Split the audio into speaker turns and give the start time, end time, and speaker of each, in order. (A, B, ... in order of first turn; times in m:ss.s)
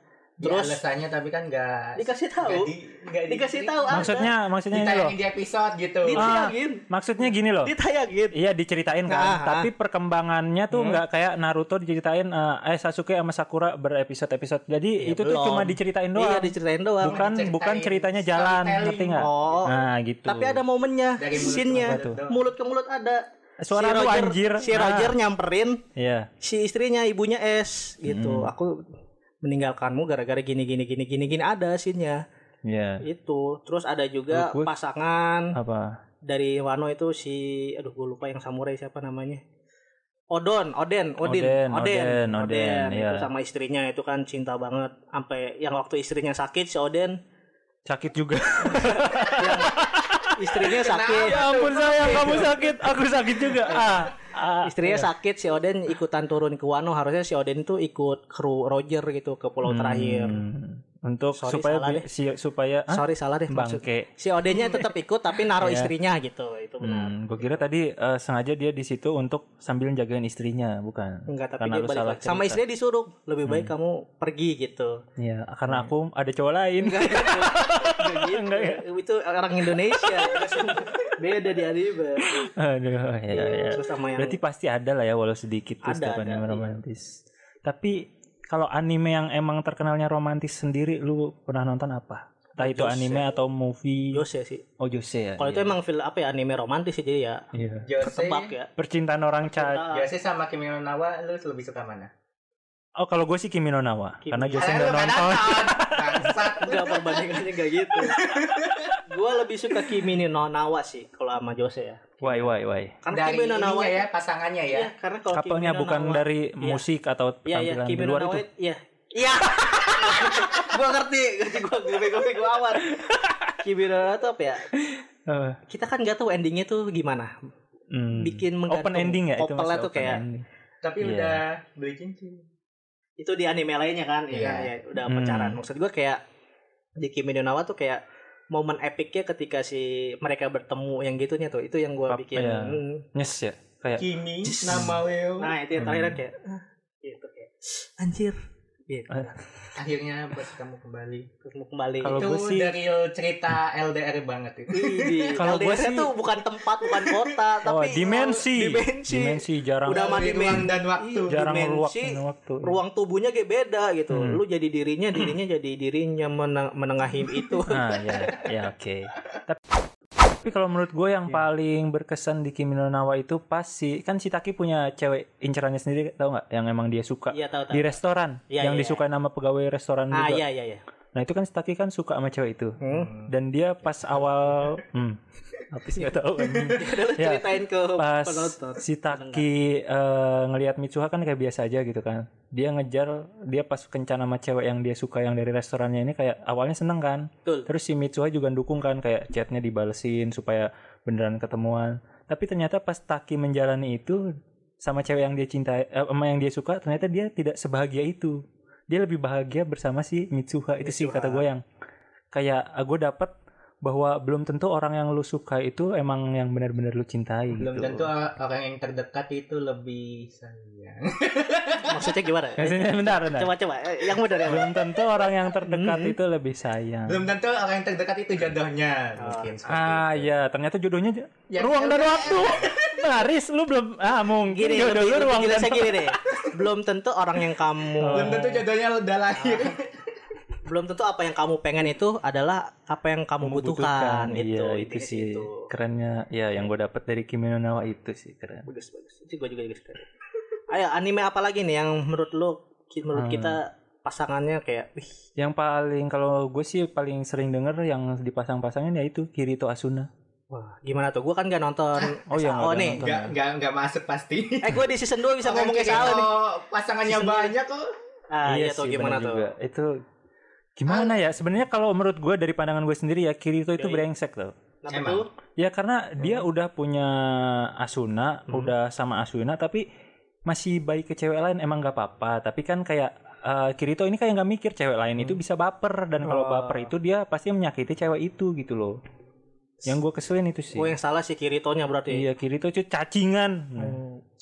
0:00.4-0:06.3 A
0:00.4-0:00.8 B
0:02.0-0:02.7 B
0:03.3-0:04.3 B
0:03.9-0:05.2 C
0:06.0-0:06.8 B
0:06.2-0:07.7 C
0:07.6-0:08.4 B
0:08.3-0:20.6 C
0:09.1-0:09.7 B
0:10.7-0:11.0 B
0:15.0-0:17.2 B
0:17.0-0:19.7 A
0:19.2-0:19.7 B
0:20.3-0:23.2 B
0:21.2-0:22.5 A
0:21.8-0:22.2 C
0:23.6-0:25.2 C
0:23.7-0:25.8 B
0:26.0-0:26.3 C
0:26.4-0:28.8 B
0:28.1-0:28.5 C
0:29.4-0:32.2 B
0:32.7-0:33.0 C
0:33.0-0:35.5 B
0:34.3-0:34.7 C
0:35.5-0:36.0 C
0:36.3-0:39.4 B
0:40.3-0:47.2 B
0:41.2-0:43.3 C
0:47.9-0:55.1 C
0:48.7-0:49.8 B
0:50.4-0:51.4 B
0:50.6-0:52.7 A
0:52.0-0:52.5 B
0:53.7-0:54.1 B
0:54.6-1:00.4 B
0:59.6-1:04.9 C
1:01.4-1:02.0 B
1:02.9-1:07.6 B
1:05.6-1:05.9 C
1:06.8-1:12.6 C
1:11.3-1:15.0 B
1:13.4-1:13.7 C
1:15.2-1:18.8 C
1:16.8-1:22.5 B
1:19.9-1:21.1 C
1:22.2-1:34.2 C
1:23.3-1:24.4 B
1:25.8-1:26.8 B
1:32.6-1:33.3 B
1:34.1-1:34.6 B
1:34.8-1:35.8 C
1:35.4-1:37.4 B
1:37.5-1:37.9 C
1:37.8-1:38.5 A
1:38.0-1:38.7 B
1:38.8-1:39.9 C
1:39.5-1:40.1 B
1:39.9-1:42.1 A
1:43.0-1:46.4 C
1:44.2-1:45.5 B
1:44.6-1:49.0 A
1:46.6-1:48.2 B
1:49.0-1:52.5 B
1:52.2-1:53.0 C
1:53.0-1:54.0 B
1:53.1-1:54.9 A
1:54.7-1:56.8 B
1:55.3-1:58.4 C
1:57.5-2:04.7 B
2:00.1-2:00.4 C
2:02.8-2:03.6 C
2:04.7-2:05.6 C
2:05.7-2:07.3 B
2:07.9-2:10.4 C
2:08.2-2:10.2 B
2:10.8-2:12.5 A
2:11.0-2:11.4 C
2:13.2-2:16.2 B
2:14.3-2:14.7 A
2:15.1-2:15.6 C
2:17.0-2:18.0 B
2:18.5-2:23.0 B
2:22.1-2:24.1 C
2:24.0-2:25.5 A
2:24.4-2:29.4 B
2:24.7-2:24.9 C
2:25.8-2:26.2 C
2:29.1-2:29.4 C
2:29.8-2:31.3 A
2:31.4-2:32.3 B
2:32.0-2:32.7 C
2:32.2-2:35.4 A
2:34.7-2:48.1 B
2:35.4-2:36.1 C
2:36.8-2:37.4 A
2:37.6-2:40.6 C
2:39.9-2:41.4 A
2:41.3-2:42.8 C
2:44.1-2:44.4 C
2:47.7-2:49.6 C
2:50.3-3:00.4 C
2:57.3-2:58.0 B
2:58.5-2:59.0 B
3:00.1-3:00.8 B
3:01.1-3:07.4 C
3:02.8-3:03.1 B
3:02.9-3:03.3 A
3:04.0-3:04.8 A
3:06.0-3:09.5 B
3:08.0-3:31.6 C
3:30.8-3:31.4 B
3:32.3-3:38.1 C
3:37.6-3:42.2 A
3:41.9-3:44.9 B
3:42.6-3:43.5 C
3:44.5-3:47.3 C
3:45.6-3:46.2 B
3:47.1-3:50.3 A
3:49.2-3:49.5 B
3:49.7-3:56.0 C
3:51.5-3:53.0 A
3:54.5-3:58.4 B
3:58.0-3:58.6 C
3:58.1-4:00.1 A
3:59.4-3:59.8 B
4:00.6-4:05.7 B
4:03.4-4:08.7 C
4:08.7-4:10.0 B
4:10.7-4:15.2 B
4:13.2-4:13.6 C
4:15.4-4:20.1 C
4:20.5-4:23.0 B
4:22.3-4:23.4 C
4:22.8-4:24.9 A
4:24.6-4:26.3 B
4:25.4-4:27.9 A
4:27.1-4:27.6 B
4:28.3-4:29.5 B
4:28.5-4:29.9 C
4:30.8-4:34.5 C
4:30.9-4:31.2 A
4:33.8-4:34.0 B
4:34.8-4:35.3 B
4:34.9-4:35.2 A
4:35.6-4:39.8 C
4:40.5-4:49.0 C
4:46.2-4:46.9 B
4:49.9-4:50.9 C
4:50.8-4:52.3 B
4:52.1-4:54.0 C
4:53.8-4:54.2 B